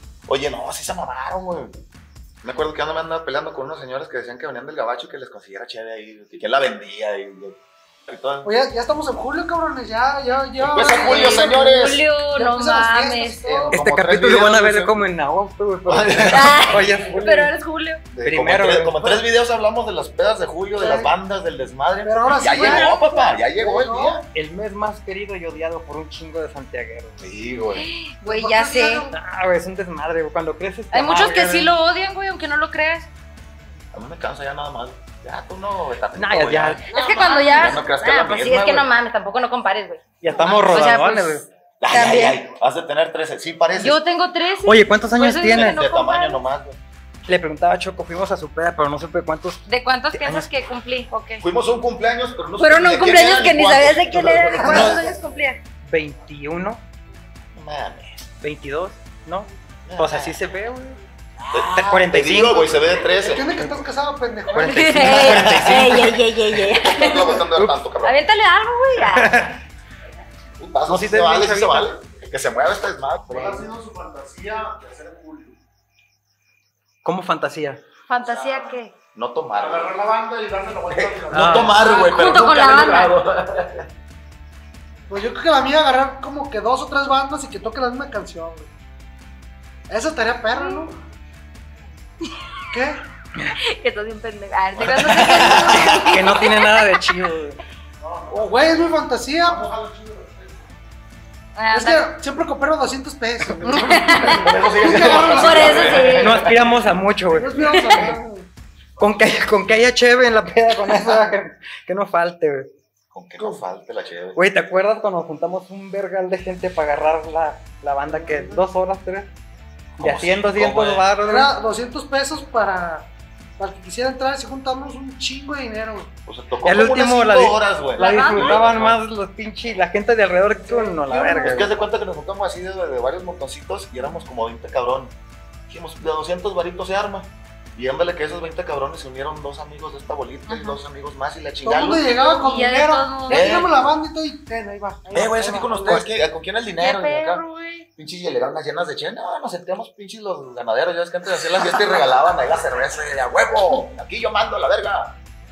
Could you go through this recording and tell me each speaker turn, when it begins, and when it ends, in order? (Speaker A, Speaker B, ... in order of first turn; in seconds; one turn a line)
Speaker A: 0.3-1.8
Speaker A: 2.4-8.5
Speaker B: 8.4-13.7
Speaker A: 10.6-12.1
Speaker C: 11.0-13.4
Speaker A: 13.4-15.1
Speaker D: 13.7-17.5
Speaker A: 15.8-16.8
Speaker C: 16.3-18.0
Speaker A: 18.1-24.2
Speaker D: 18.2-19.2
Speaker B: 20.8-21.1
Speaker B: 22.0-23.0
Speaker C: 22.4-23.3
Speaker B: 23.5-24.2
Speaker D: 24.3-27.2
Speaker A: 27.2-27.9
Speaker C: 27.7-29.1
Speaker B: 28.2-29.1
Speaker D: 29.1-31.7
Speaker C: 30.9-33.1
Speaker A: 33.9-38.9
Speaker D: 36.1-36.9
Speaker B: 36.9-37.8
Speaker C: 36.9-42.4
Speaker D: 40.2-41.5
Speaker A: 41.8-44.0
Speaker C: 43.8-46.4
Speaker D: 44.6-45.8
Speaker A: 45.4-46.8
Speaker D: 47.2-50.5
Speaker C: 49.6-51.4
Speaker A: 51.4-55.0
Speaker C: 52.6-55.6
Speaker B: 54.6-55.0
Speaker D: 54.7-55.1
Speaker D: 55.8-56.8
Speaker A: 57.5-58.2
Speaker D: 58.4-61.0
Speaker A: 59.9-60.4
Speaker A: 61.5-63.7
Speaker D: 61.5-62.7
Speaker B: 63.1-65.5
Speaker D: 64.5-66.2
Speaker C: 64.6-67.4
Speaker A: 65.0-68.2
Speaker C: 68.0-69.5
Speaker D: 69.0-69.5
Speaker A: 70.6-73.7
Speaker D: 70.9-71.9
Speaker E: 73.3-75.6
Speaker D: 77.0-77.8
Speaker C: 78.1-78.9
Speaker A: 79.1-79.9
Speaker E: 79.6-81.8
Speaker A: 80.9-83.8
Speaker D: 81.3-81.8
Speaker C: 81.7-83.2
Speaker B: 85.1-88.7
Speaker B: 89.9-91.0
Speaker C: 90.5-90.8
Speaker B: 92.7-93.0
Speaker C: 93.5-96.6
Speaker A: 94.8-96.2
Speaker D: 95.2-97.6
Speaker B: 98.3-99.7
Speaker E: 99.5-100.5
Speaker C: 101.5-102.0
Speaker B: 101.7-106.2
Speaker C: 103.6-104.5
Speaker A: 104.3-106.8
Speaker C: 105.3-106.5
Speaker D: 106.0-108.2
Speaker B: 107.3-108.5
Speaker C: 107.7-108.0
Speaker D: 109.0-112.7
Speaker B: 110.9-111.3
Speaker A: 113.1-114.4
Speaker D: 114.3-119.3
Speaker B: 118.0-118.6
Speaker A: 120.0-121.1
Speaker D: 120.0-121.5
Speaker B: 121.2-126.1
Speaker A: 126.3-129.0
Speaker D: 126.6-131.7
Speaker C: 128.0-128.6
Speaker B: 130.6-131.7
Speaker A: 131.4-135.1
Speaker A: 135.7-142.1
Speaker C: 140.5-140.8
Speaker B: 141.6-146.1
Speaker C: 142.2-143.6
Speaker A: 143.3-143.7
Speaker A: 145.1-147.4
Speaker C: 146.8-147.8
Speaker A: 147.9-155.1